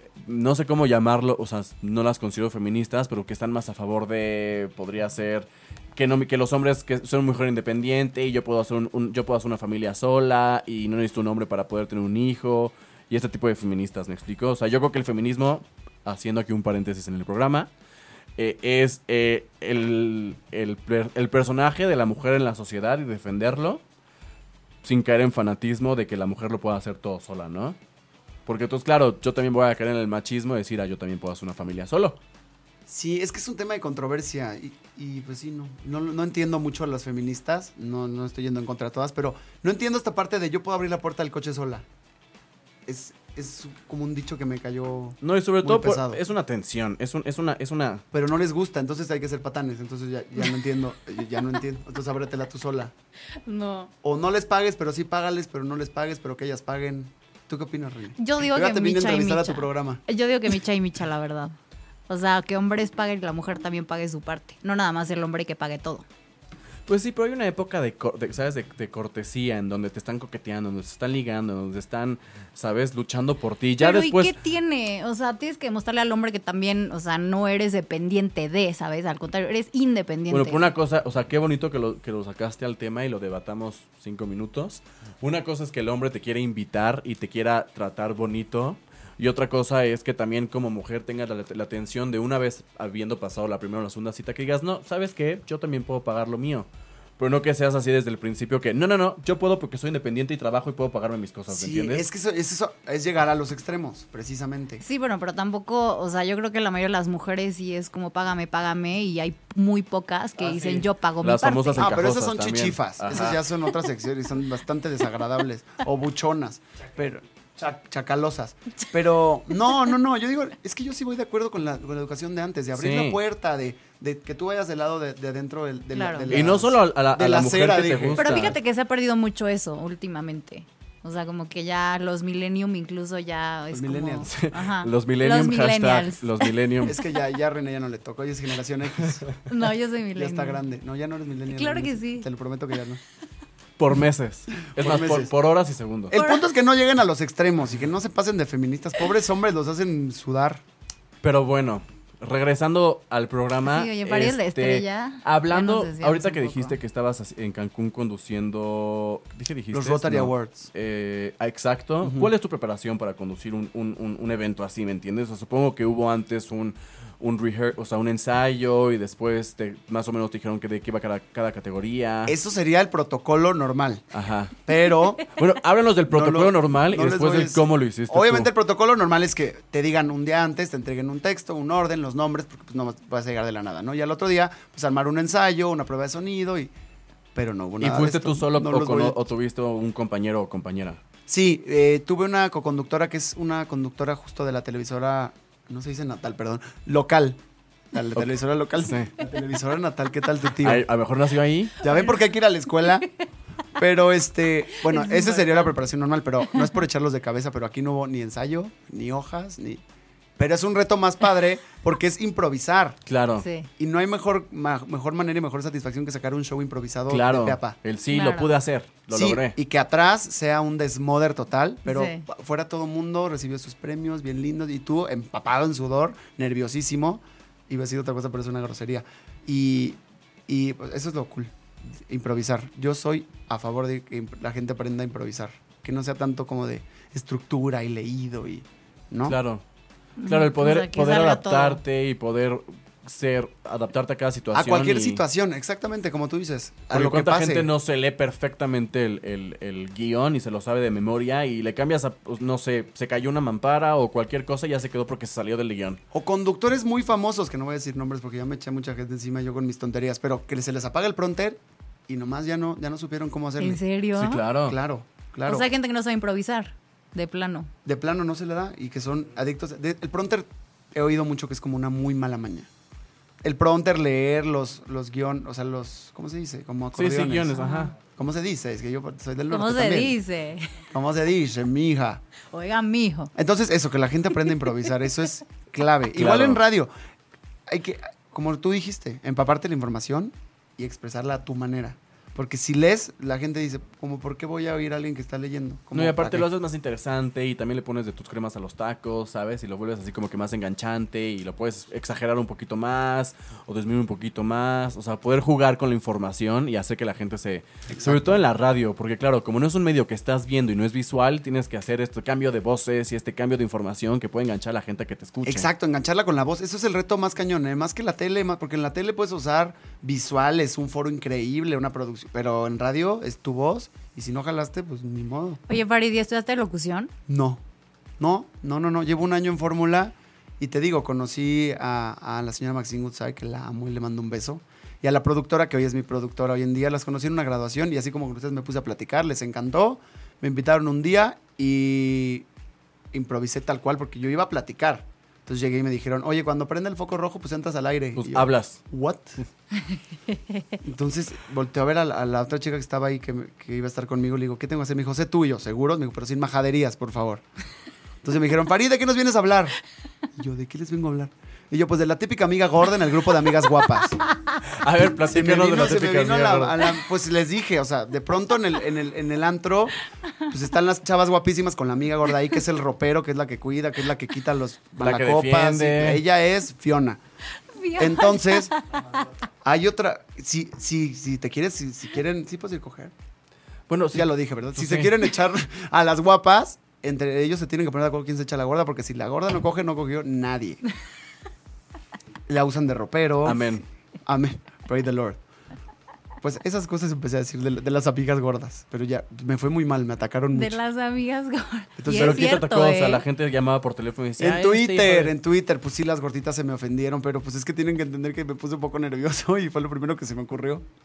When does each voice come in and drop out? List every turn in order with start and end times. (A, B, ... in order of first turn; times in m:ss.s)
0:00.2-0:17.7 A
0:18.4-0:23.8 A
0:24.8-0:27.8 A
0:28.5-0:32.2 A
0:32.9-0:41.8 B
0:42.9-0:46.2 B
0:45.2-0:48.0 A
0:48.1-0:52.9 B
0:53.4-0:53.9 C
0:54.0-1:00.0 B
0:58.2-1:01.6 C
1:02.1-1:06.1 C
1:06.9-1:14.4 A
1:13.8-1:20.6 C
1:20.3-1:36.7 A
1:37.2-1:42.0 A
1:41.5-1:44.8 B
1:44.8-1:51.9 C
1:50.4-1:53.4 A
1:51.8-2:08.2 B
2:02.8-2:03.2 A
2:05.9-2:06.4 C
2:06.3-2:08.6 A
2:08.2-2:16.5 C
2:13.7-2:14.3 B
2:14.3-2:17.0 A
2:16.8-2:19.3 B
2:19.5-2:20.6 C
2:20.2-2:23.0 B
2:21.5-2:22.3 C
2:23.8-2:26.2 A
2:24.6-2:25.3 B
2:26.1-2:30.6 B
2:26.1-2:26.4 C
2:31.2-2:52.4 A
2:33.7-2:36.8 C
2:39.7-2:40.7 B
2:42.0-2:42.3 B
2:52.3-2:54.0 B
2:54.1-2:54.6 A
2:54.7-2:55.4 B
2:55.3-2:58.5 A
2:56.1-3:06.7 B
3:07.4-3:09.2 B
3:07.8-3:11.0 A
3:11.3-3:17.4 B
3:17.9-3:20.9 B
3:18.2-3:19.1 A
3:20.6-3:21.8 A
3:21.8-3:23.1 B
3:23.8-3:29.8 B
3:24.8-3:25.7 C
3:30.4-3:33.0 B
3:33.1-3:33.5 A
3:33.4-3:33.7 C
3:33.8-3:37.8 B
3:37.1-3:39.6 A
3:38.1-3:38.5 C
3:39.1-3:59.4 B
3:41.9-3:42.2 C
3:59.3-3:59.6 A
4:00.2-4:01.8 C
4:00.2-4:05.2 A
4:04.5-4:07.7 B
4:06.9-4:16.0 A
4:16.1-4:23.8 B
4:23.6-4:24.4 C
4:24.2-4:24.8 A
4:24.6-4:25.7 B
4:25.5-4:27.7 C
4:27.8-4:32.7 B
4:33.4-4:40.2 B
4:36.9-4:37.9 A
4:37.5-4:37.9 C
4:39.5-4:40.8 C
4:40.9-4:42.2 B
4:42.5-4:43.3 C
4:43.4-4:46.9 B
4:46.1-4:46.6 A
4:47.7-4:56.5 B
4:55.9-5:15.7 A
5:07.9-5:08.4 B
5:15.4-5:25.6 B
5:25.7-5:27.1 C
5:27.3-5:27.6 B
5:28.2-5:42.5 B
5:43.1-5:49.4 B
5:48.2-5:48.8 A
5:50.8-5:57.4 B
5:58.2-5:59.8 B
6:00.4-6:04.2 B
6:04.6-6:06.9 A
6:05.2-6:17.2 B
6:15.0-6:16.2 A
6:17.7-6:19.2 C
6:18.0-6:18.7 B
6:19.6-6:23.1 B
6:23.9-6:25.2 A
6:24.1-6:30.8 B
6:32.5-6:33.7 B
6:33.4-6:33.8 A
6:34.3-6:35.4 B
6:36.4-6:40.8 B
6:40.6-6:43.2 C
6:42.0-6:42.6 B
6:42.1-6:45.3 A
6:44.4-6:50.8 B